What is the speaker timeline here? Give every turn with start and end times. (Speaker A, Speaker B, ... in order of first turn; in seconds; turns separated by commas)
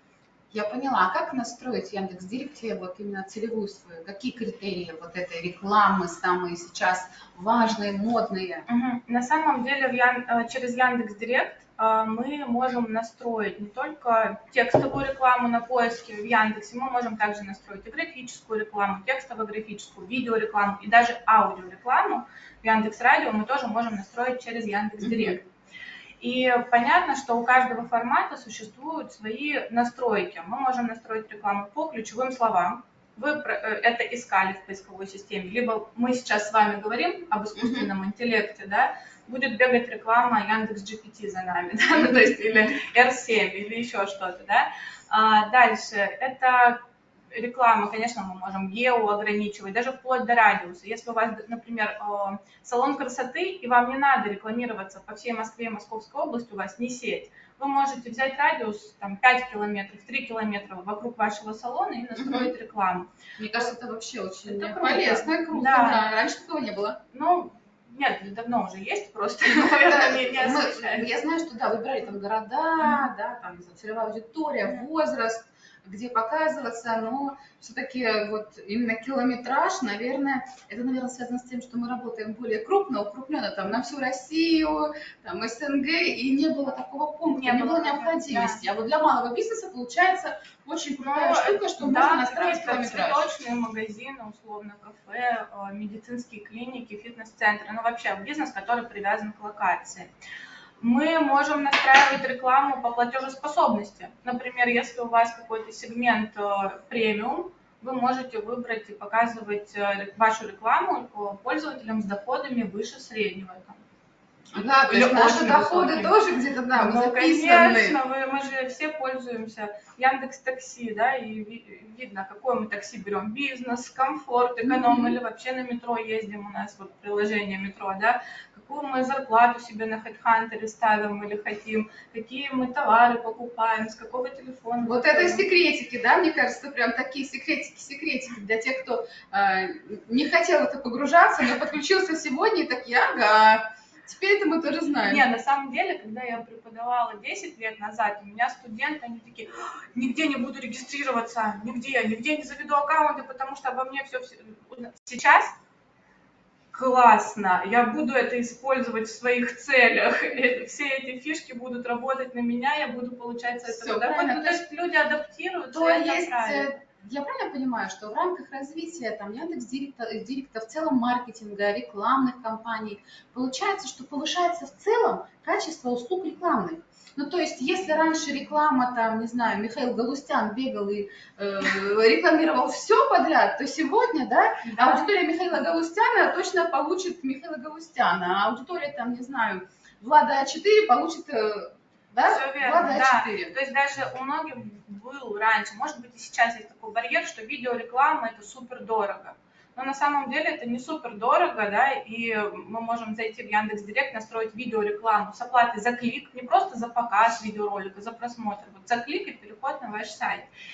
Speaker A: 0.5-8.7, Speaker B: 8.7-25.5, Speaker A: 25.0-25.4, Speaker B: 26.2-46.8, Speaker A: 37.6-37.9, Speaker A: 42.0-42.6, Speaker B: 47.3-63.7, Speaker A: 62.2-62.5, Speaker A: 63.4-67.0, Speaker B: 64.4-66.0, Speaker B: 67.1-71.1, Speaker A: 69.5-93.3, Speaker B: 87.2-88.7, Speaker B: 91.0-100.1, Speaker B: 100.8-113.8, Speaker A: 114.5-118.0, Speaker B: 114.8-116.2, Speaker B: 116.7-135.5, Speaker A: 124.6-125.1, Speaker A: 134.9-145.2, Speaker B: 145.0-155.6, Speaker B: 156.7-166.7, Speaker A: 163.7-164.6, Speaker A: 165.7-193.6, Speaker B: 184.7-185.1, Speaker B: 192.3-210.5